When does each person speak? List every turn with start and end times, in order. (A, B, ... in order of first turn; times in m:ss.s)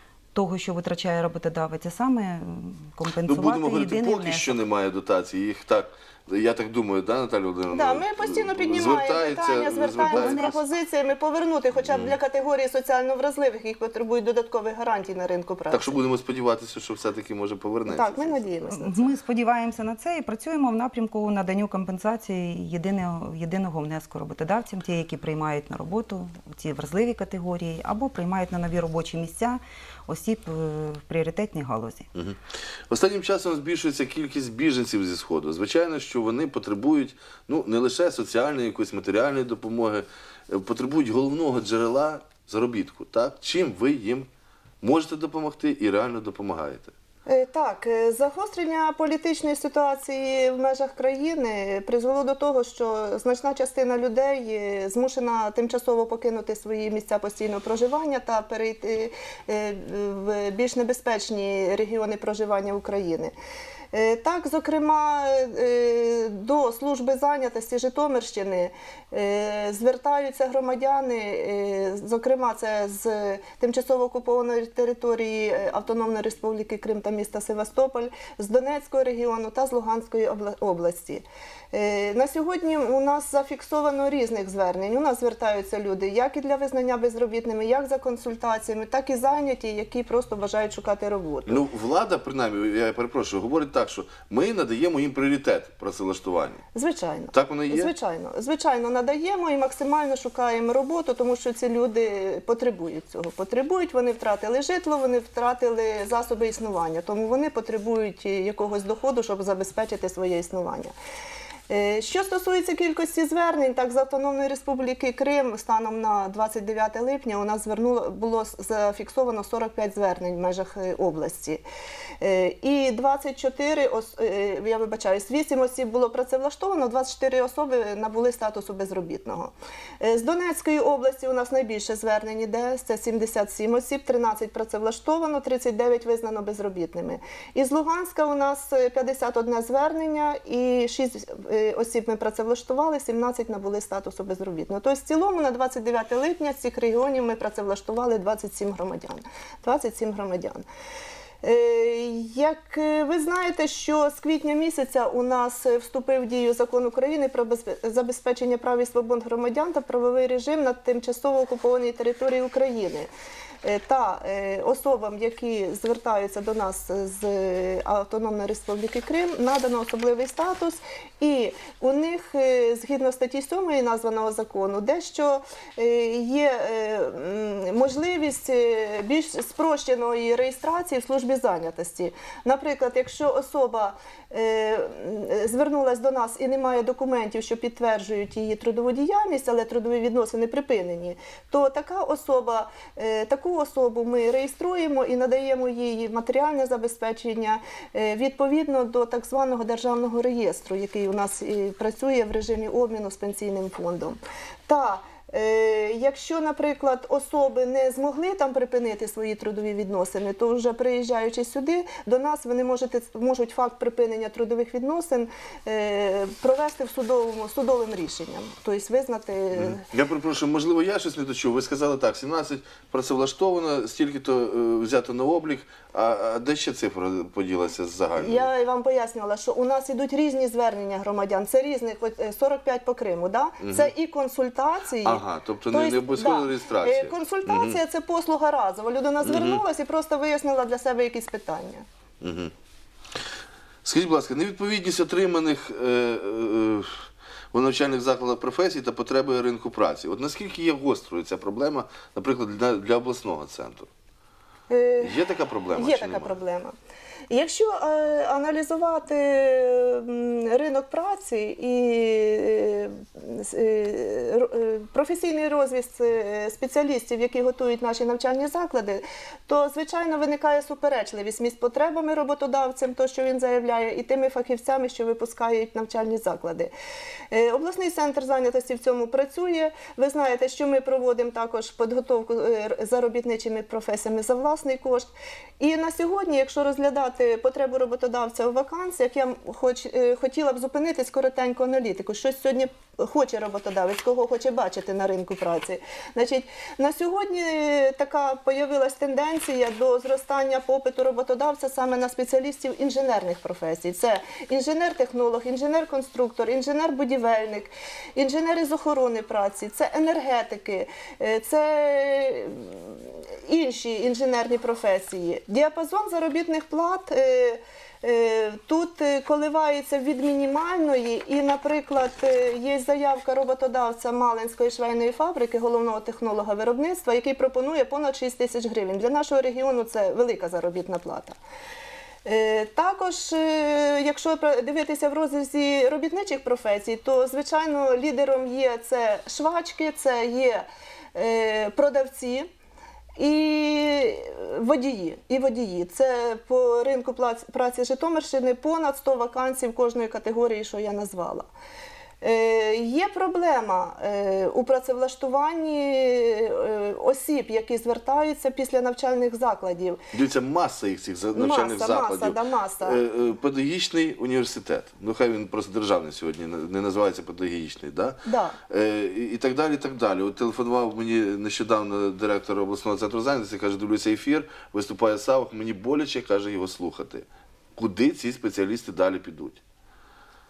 0:00.3-0:04.6 A
0:03.3-0:10.6 B
0:07.7-0:16.0 C
0:10.0-0:10.5 A
0:11.8-0:12.2 B
0:15.7-0:18.4 B
0:17.9-0:19.1 C
0:18.7-0:32.1 A
0:32.2-0:44.3 B
0:44.8-0:46.9 B
0:47.3-1:03.3 C
1:03.9-1:31.6 C
1:31.5-1:36.6 B
1:36.8-1:50.9 C
1:37.3-1:37.9 B
1:51.7-2:01.6 C
2:02.2-2:30.6 C
2:31.4-2:43.1 C
2:43.6-3:39.9 C
3:39.6-3:48.5 B
3:48.2-4:01.8 C
3:53.6-3:53.9 B
3:55.0-3:57.8 B
3:59.2-3:59.6 B
4:02.2-4:02.5 B
4:03.8-4:13.9 B
4:14.7-4:15.2 C
4:15.0-4:16.4 B
4:15.7-4:16.7 C
4:17.3-4:36.7 C
4:37.3-5:31.4 C
5:32.2-5:42.5 C
5:43.2-5:51.5 C
5:52.2-6:00.0 C
6:00.1-6:17.2 B
6:01.4-6:03.0 C
6:08.3-6:08.6 C
6:17.8-6:19.6 B